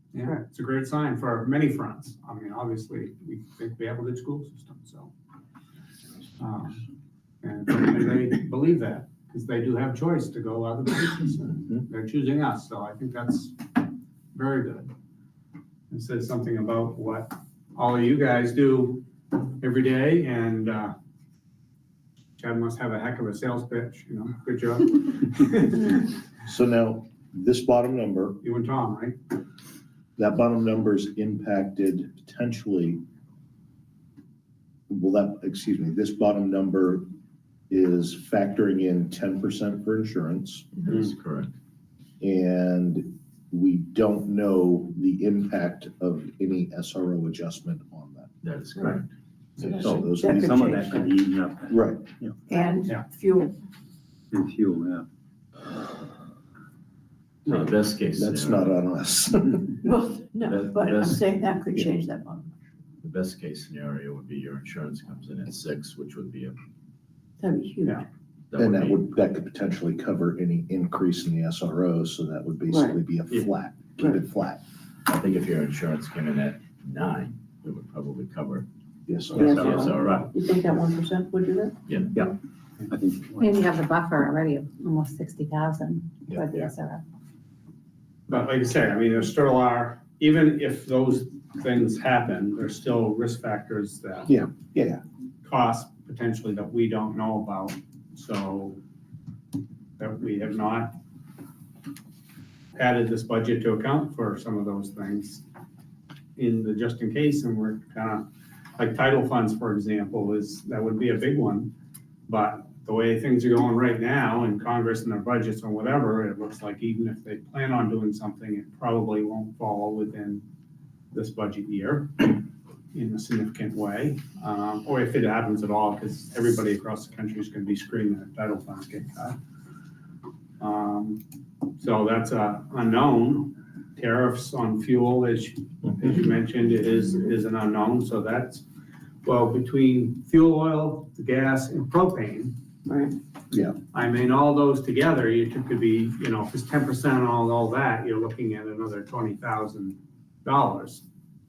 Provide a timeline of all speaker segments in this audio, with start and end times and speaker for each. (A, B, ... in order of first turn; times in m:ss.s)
0:00.1-0:05.1 A
0:06.4-0:06.8 A
0:07.4-0:14.9 A
0:15.9-0:19.0 A
0:19.6-0:20.9 A
0:22.4-0:26.0 A
0:26.4-0:28.4 B
0:28.4-0:29.2 A
0:30.2-0:33.0 B
0:34.9-0:37.1 B
0:37.7-0:40.7 B
0:40.8-0:41.6 C
0:42.2-0:48.3 B
0:48.4-0:49.1 C
0:49.6-0:51.0 B
0:49.8-0:52.4 D
0:50.2-0:51.0 E
0:51.7-0:52.0 B
0:52.5-0:53.5 E
0:54.3-0:55.0 D
0:57.4-0:58.7 C
0:58.1-0:59.7 B
0:59.8-1:02.5 E
1:00.4-1:01.3 C
1:03.0-1:06.5 C
1:07.4-1:08.0 E
1:08.5-1:09.0 C
1:08.6-1:14.6 B
1:12.7-1:13.0 E
1:15.1-1:18.7 C
1:19.1-1:19.8 B
1:19.3-1:20.3 C
1:19.3-1:20.2 D
1:19.4-1:21.8 E
1:21.8-1:22.1 C
1:22.9-1:23.6 D
1:23.4-1:27.0 F
1:26.4-1:26.7 E
1:28.3-1:34.4 A
1:34.3-1:35.0 B
1:35.4-1:38.8 A
1:40.0-1:40.9 A
1:42.7-1:45.4 A
1:46.4-1:51.7 A
1:52.3-2:00.4 A
2:01.1-2:09.4 A
2:10.6-2:11.2 A
2:11.8-2:18.6 A
2:19.2-2:22.6 A
2:22.9-2:23.1 E
2:23.5-2:23.8 B
2:23.9-2:31.0 A